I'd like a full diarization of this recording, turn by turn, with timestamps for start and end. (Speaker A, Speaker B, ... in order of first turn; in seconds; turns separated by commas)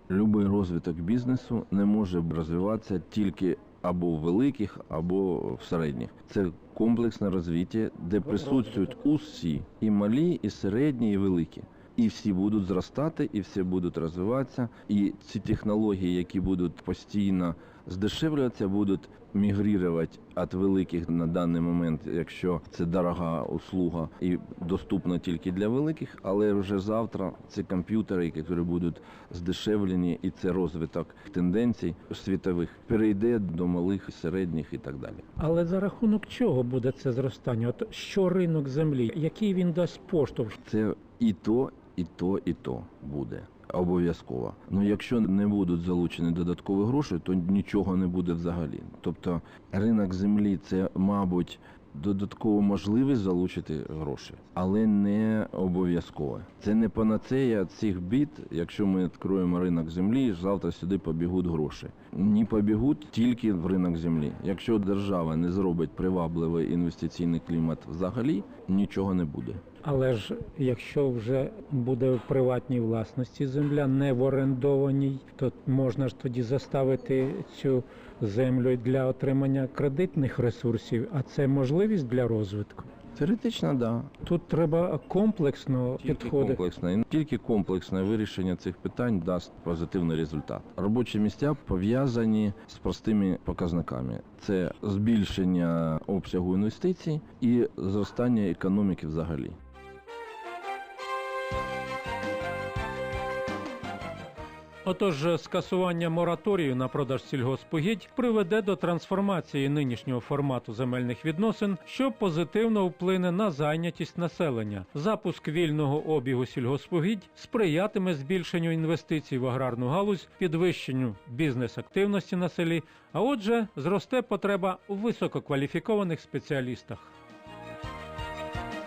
Speaker A: 0.1-35.2, Speaker B: 8.3-8.9, Speaker B: 35.4-40.6, Speaker A: 40.6-69.6, Speaker B: 69.8-82.9, Speaker A: 83.2-84.1, Speaker B: 84.2-86.6, Speaker A: 86.0-99.6, Speaker B: 104.8-127.1